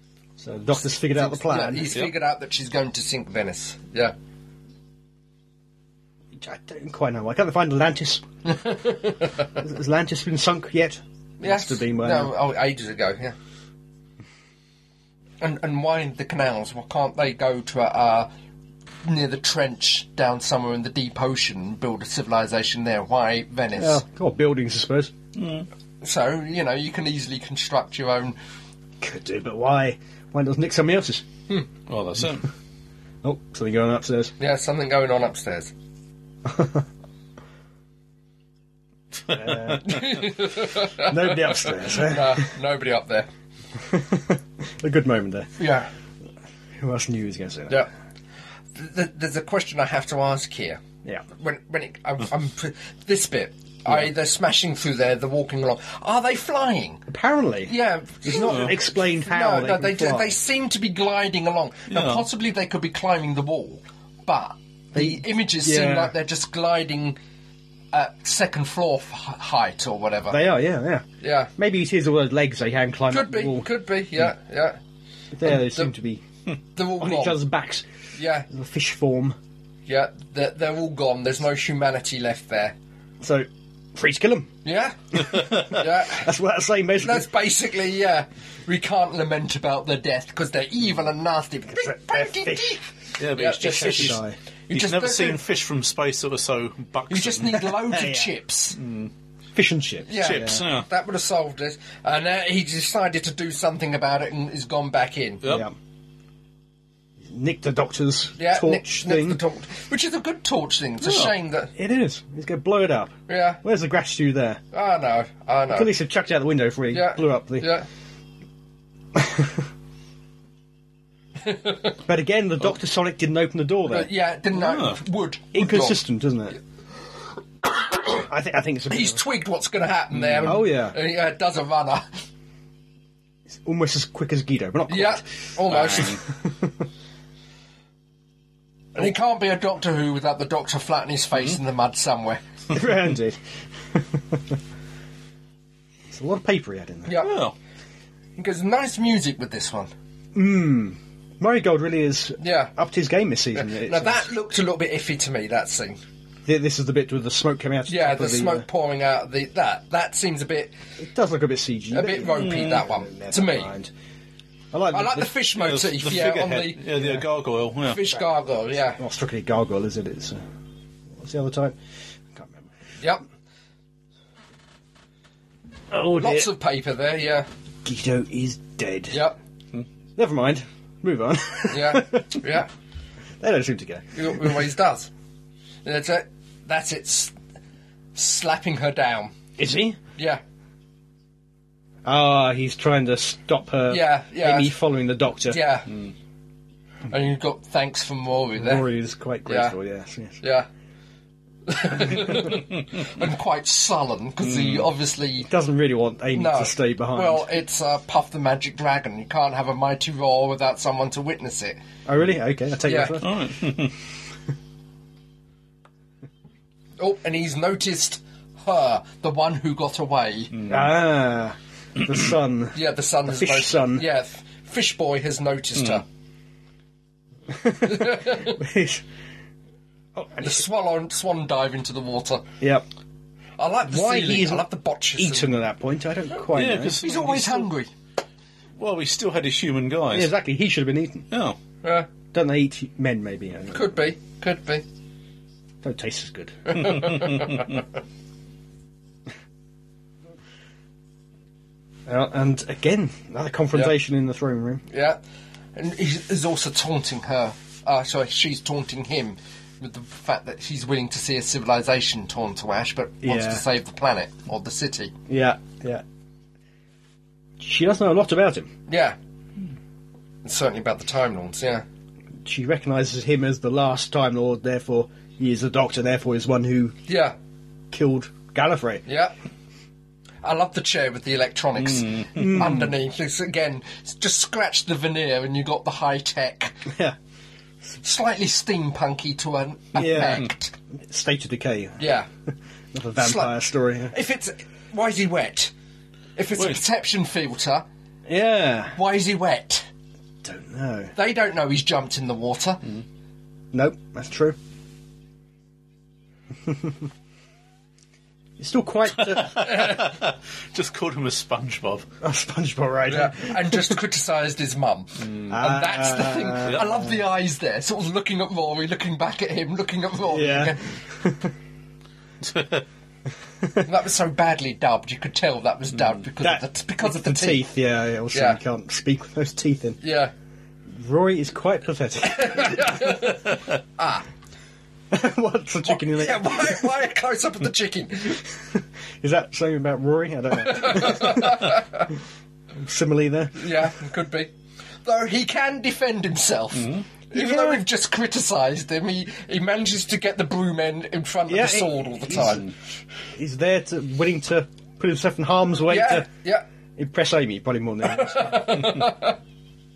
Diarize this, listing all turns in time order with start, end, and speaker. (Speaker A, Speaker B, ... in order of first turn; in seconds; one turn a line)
Speaker A: 0.4-1.9
Speaker B: 1.0-4.1
Speaker A: 6.3-8.2
Speaker B: 8.4-9.3
Speaker A: 9.6-12.3
Speaker B: 11.4-13.3
Speaker B: 15.4-18.3
Speaker B: 19.0-24.0
Speaker A: 23.8-25.1
Speaker C: 25.4-25.6
Speaker B: 26.0-28.4
Speaker A: 29.0-31.2
Speaker C: 31.9-32.5
Speaker A: 33.2-34.3
Speaker B: 34.4-35.7
Speaker A: 36.4-36.9
Speaker A: 39.3-40.2
Speaker B: 39.8-43.3
Speaker A: 40.8-42.5
Speaker A: 43.8-45.6
Speaker B: 45.6-45.9
Speaker A: 46.8-47.8
Speaker B: 48.7-57.0
Speaker A: 57.1-57.7
Speaker B: 57.7-67.2
Speaker A: 58.2-60.4
Speaker C: 58.4-58.7
Speaker C: 61.9-62.2
Speaker A: 64.9-66.1
Speaker B: 67.9-70.4
Speaker A: 70.3-71.0
Speaker B: 71.2-71.5
Speaker A: 71.6-73.7
Speaker B: 73.1-74.8
Speaker A: 75.3-76.2
Speaker B: 75.4-75.9
Speaker B: 76.8-77.4
Speaker A: 77.0-77.8
Speaker B: 78.2-78.5
Speaker A: 78.5-79.4
Speaker B: 79.9-82.7
Speaker A: 83.2-84.5
Speaker B: 84.6-86.3
Speaker A: 85.3-87.3
Speaker B: 87.0-95.4
Speaker A: 91.8-92.8
Speaker C: 93.2-97.7
Speaker A: 93.6-94.3
Speaker B: 97.1-98.8
Speaker A: 97.7-98.3
Speaker C: 98.8-99.1
Speaker A: 99.5-100.6
Speaker B: 100.0-105.4
Speaker C: 100.2-100.9
Speaker A: 105.4-105.7
Speaker A: 107.2-109.4
Speaker B: 108.4-111.7
Speaker C: 111.0-111.3
Speaker A: 111.7-114.6
Speaker B: 113.3-113.6
Speaker B: 114.7-115.9
Speaker A: 115.7-117.7
Speaker B: 116.9-117.9
Speaker A: 119.1-119.6
Speaker B: 121.4-121.9
Speaker A: 122.0-124.1
Speaker B: 123.9-126.0
Speaker C: 124.5-125.0
Speaker A: 125.5-126.6
Speaker A: 128.2-129.2
Speaker B: 128.9-132.1
Speaker C: 130.1-130.6
Speaker A: 130.4-130.9
Speaker A: 133.5-135.2
Speaker B: 134.9-136.2
Speaker C: 135.7-136.2
Speaker A: 135.8-136.8
Speaker B: 138.9-142.4
Speaker A: 142.7-143.4
Speaker A: 143.9-144.5
Speaker A: 146.1-147.1
Speaker B: 147.0-147.3
Speaker C: 147.2-147.5
Speaker B: 148.4-149.9
Speaker A: 150.3-154.3
Speaker B: 152.4-152.7
Speaker B: 153.5-156.0
Speaker A: 156.4-158.7
Speaker B: 157.9-160.7
Speaker A: 161.0-163.9
Speaker B: 161.9-163.7
Speaker C: 162.3-162.8
Speaker A: 164.7-165.3
Speaker B: 164.9-166.8
Speaker C: 165.6-168.0
Speaker A: 166.9-167.2
Speaker B: 167.8-169.0
Speaker A: 168.9-170.4
Speaker A: 171.1-171.8
Speaker A: 172.3-172.7
Speaker A: 175.9-176.5
Speaker B: 176.2-177.5
Speaker A: 177.8-179.2
Speaker B: 179.1-179.4
Speaker A: 180.2-182.4
Speaker B: 181.7-182.7
Speaker A: 183.4-184.6
Speaker B: 184.1-185.1
Speaker B: 185.8-187.3
Speaker B: 188.1-189.3
Speaker A: 189.6-190.0
Speaker A: 192.0-195.6
Speaker B: 193.9-194.7
Speaker B: 195.5-195.9
Speaker B: 197.1-198.9
Speaker A: 198.6-200.4
Speaker B: 199.4-199.7
Speaker B: 200.4-200.7
Speaker B: 201.7-205.5
Speaker C: 204.4-204.9
Speaker A: 205.5-207.4
Speaker B: 206.3-211.8
Speaker A: 212.1-213.4
Speaker B: 212.8-213.2
Speaker C: 213.2-213.9
Speaker B: 217.0-220.6
Speaker C: 220.5-220.8
Speaker A: 220.7-224.0
Speaker B: 222.7-226.0
Speaker A: 227.5-229.0
Speaker B: 227.8-228.6
Speaker A: 230.2-230.6
Speaker B: 230.4-232.4
Speaker B: 233.6-235.6
Speaker A: 233.8-237.0
Speaker C: 236.5-237.7
Speaker B: 237.0-237.9
Speaker C: 238.8-240.3
Speaker A: 240.1-241.2
Speaker C: 241.3-241.6
Speaker B: 241.8-242.1
Speaker A: 242.3-243.9
Speaker B: 243.7-244.8
Speaker A: 245.8-246.9
Speaker B: 246.7-247.7
Speaker C: 246.9-247.7
Speaker A: 252.1-254.8
Speaker B: 254.9-255.2
Speaker B: 255.7-265.1
Speaker A: 263.2-263.6
Speaker A: 265.3-266.0
Speaker A: 267.6-268.7
Speaker B: 268.9-269.2
Speaker B: 270.4-271.8
Speaker A: 272.4-276.9
Speaker B: 277.1-277.3
Speaker A: 277.9-279.0
Speaker B: 279.1-279.3
Speaker B: 280.4-286.8
Speaker C: 281.8-282.7
Speaker A: 282.3-282.9
Speaker A: 286.9-287.1
Speaker B: 288.0-290.7
Speaker A: 289.9-290.4
Speaker A: 291.0-292.0
Speaker B: 292.0-292.3
Speaker A: 292.5-294.1
Speaker B: 293.2-293.5
Speaker B: 294.1-295.7
Speaker B: 296.4-297.8
Speaker A: 298.3-298.9
Speaker B: 298.9-299.9
Speaker A: 300.4-301.1
Speaker B: 301.1-302.8
Speaker A: 303.7-304.6
Speaker A: 306.6-306.9
Speaker A: 308.6-309.7
Speaker C: 309.4-312.1
Speaker B: 309.6-310.0
Speaker A: 312.2-313.9
Speaker B: 313.1-321.0
Speaker C: 315.2-315.6
Speaker A: 315.5-317.1
Speaker A: 320.3-321.5
Speaker C: 322.4-322.8
Speaker B: 323.8-327.7
Speaker A: 326.4-330.0
Speaker B: 328.3-328.6
Speaker B: 330.0-330.3
Speaker A: 330.9-333.0
Speaker B: 332.3-334.2
Speaker A: 335.1-336.9
Speaker B: 335.8-338.4
Speaker A: 338.5-341.6
Speaker B: 340.6-342.1
Speaker A: 342.8-343.7
Speaker B: 343.5-344.5
Speaker B: 345.0-352.7
Speaker C: 346.7-347.0
Speaker A: 347.3-347.8
Speaker A: 351.5-352.6
Speaker A: 353.3-356.3
Speaker B: 355.9-356.6
Speaker A: 356.9-358.8
Speaker B: 358.1-359.4